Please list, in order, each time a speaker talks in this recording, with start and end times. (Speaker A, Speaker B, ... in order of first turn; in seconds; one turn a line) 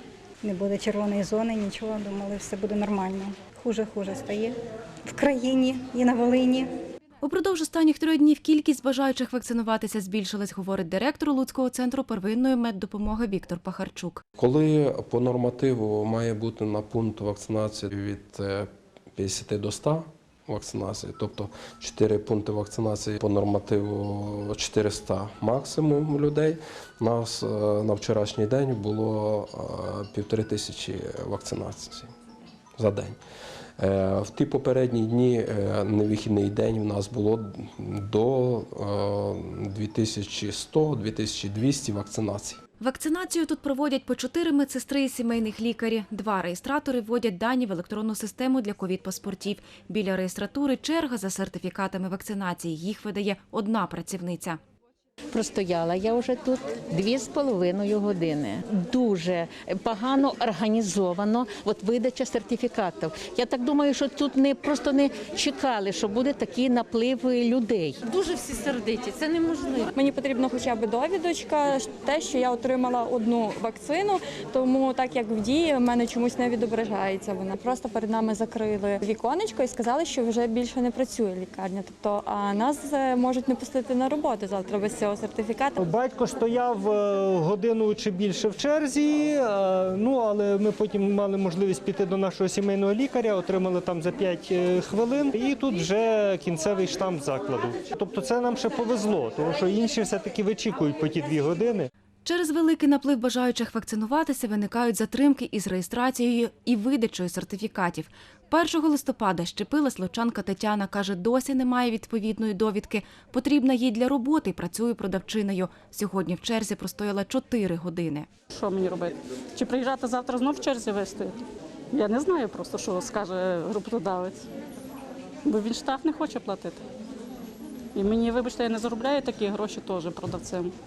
Speaker A: 0.4-6.7
Speaker B: 7.2-14.2
Speaker C: 14.4-32.1
Speaker C: 32.8-33.2
Speaker C: 33.8-42.6
Speaker B: 42.8-54.6
Speaker D: 55.3-69.9
Speaker E: 69.9-85.8
Speaker F: 85.8-101.9
Speaker B: 102.2-118.3
Speaker G: 118.5-121.4
Speaker G: 121.9-124.5
Speaker G: 125.5-126.8
Speaker G: 128.0-130.7